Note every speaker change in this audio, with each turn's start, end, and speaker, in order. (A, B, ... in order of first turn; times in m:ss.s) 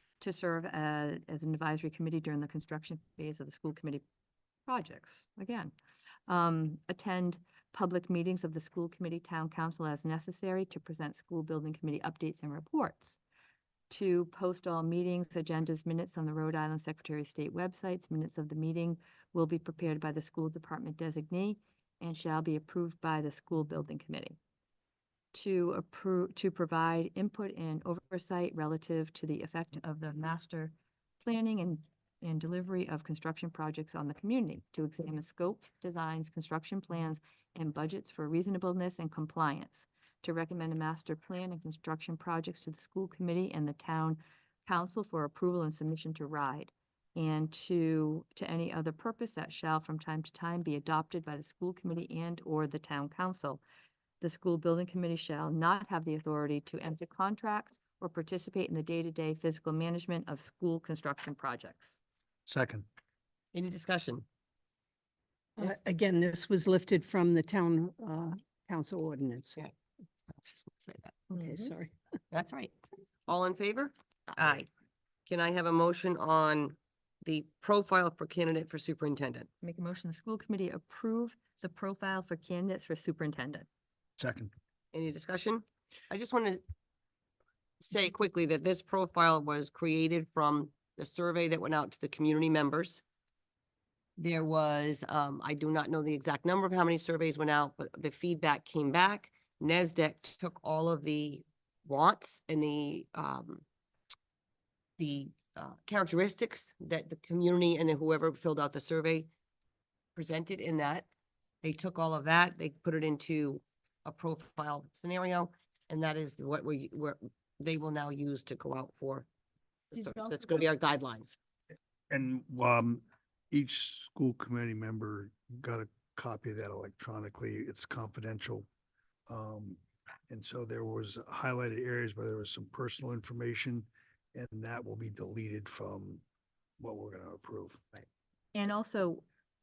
0:00.2-0:04.0 A
0:04.7-0:05.7 A
0:06.3-0:13.2 A
0:13.9-0:24.4 A
0:25.3-0:53.6 A
0:54.2-1:02.0 A
1:02.5-1:02.9 B
1:03.5-1:04.2 C
1:05.6-1:09.6 D
1:10.3-1:11.2 C
1:11.3-1:11.7 A
1:11.4-1:11.9 D
1:12.3-1:12.8 C
1:13.3-1:14.7 C
1:15.3-1:19.5 C
1:19.6-1:23.7 A
1:24.2-1:24.5 B
1:24.9-1:26.6 C
1:27.8-1:33.0 C
1:34.2-1:43.6 C
1:45.0-1:49.3 C
1:50.2-1:51.1 C
1:51.6-1:59.3 C
1:59.9-2:01.4 C
2:00.1-2:00.6 A
2:02.1-2:08.7 B
2:09.3-2:16.2 B
2:16.8-2:17.9 B
2:18.5-2:19.2 A